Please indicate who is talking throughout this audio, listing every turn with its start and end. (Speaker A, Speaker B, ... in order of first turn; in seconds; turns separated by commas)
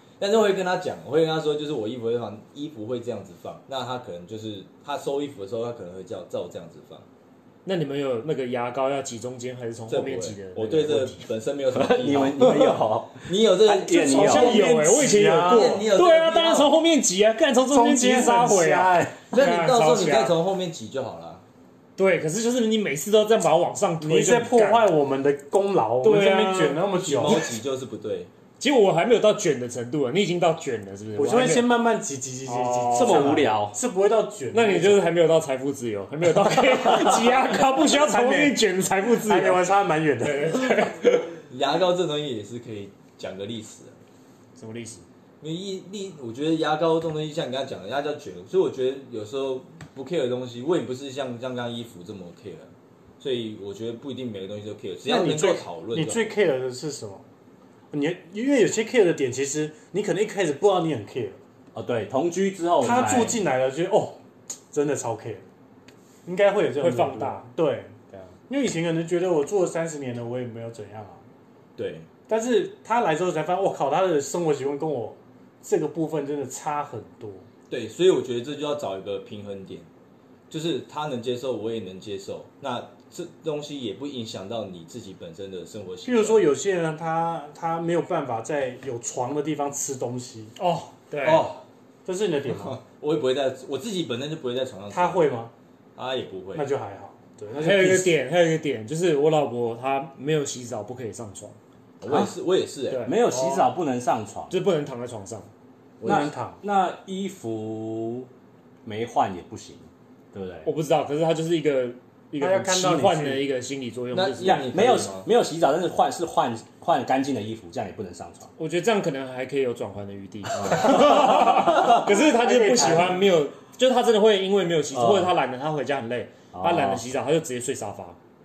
Speaker A: 0.2-7.1, Speaker B: 7.7-11.3, Speaker A: 9.9-14.7, Speaker C: 11.7-14.6, Speaker D: 14.0-15.8, Speaker B: 14.2-20.4, Speaker A: 15.2-16.7, Speaker D: 17.7-19.2, Speaker A: 19.3-21.4, Speaker B: 22.0-24.9, Speaker D: 24.0-27.5, Speaker B: 26.0-26.8, Speaker A: 26.9-28.3, Speaker B: 28.6-31.7, Speaker D: 31.2-35.1, Speaker B: 32.5-33.4, Speaker C: 32.9-33.8, Speaker B: 34.5-41.4, Speaker D: 36.5-40.8, Speaker A: 41.5-44.0, Speaker B: 44.6-45.0, Speaker A: 45.4-56.3, Speaker D: 55.1-57.2, Speaker D: 57.9-61.4, Speaker C: 61.8-63.4, Speaker D: 62.8-64.2, Speaker D: 64.7-65.5, Speaker D: 66.3-68.0, Speaker B: 66.8-67.5, Speaker D: 68.5-71.2, Speaker A: 71.8-72.1, Speaker D: 72.3-77.5, Speaker A: 77.7-79.9, Speaker A: 80.5-86.5, Speaker D: 86.0-90.5, Speaker B: 90.6-91.5, Speaker A: 91.2-91.6, Speaker D: 92.1-92.8, Speaker A: 92.5-95.5, Speaker D: 94.9-95.5, Speaker A: 96.0-96.7, Speaker D: 96.5-98.2, Speaker B: 97.6-101.6, Speaker A: 102.0-103.2, Speaker B: 102.9-103.6, Speaker C: 103.0-104.6, Speaker B: 104.5-105.5, Speaker A: 106.0-106.3, Speaker D: 106.0-106.6, Speaker C: 106.0-108.3, Speaker C: 108.8-110.7, Speaker B: 110.7-114.7, Speaker D: 112.4-113.5, Speaker A: 114.1-115.3, Speaker C: 114.4-118.5, Speaker B: 118.6-128.2, Speaker D: 121.0-123.2, Speaker C: 124.9-125.3, Speaker C: 126.5-127.0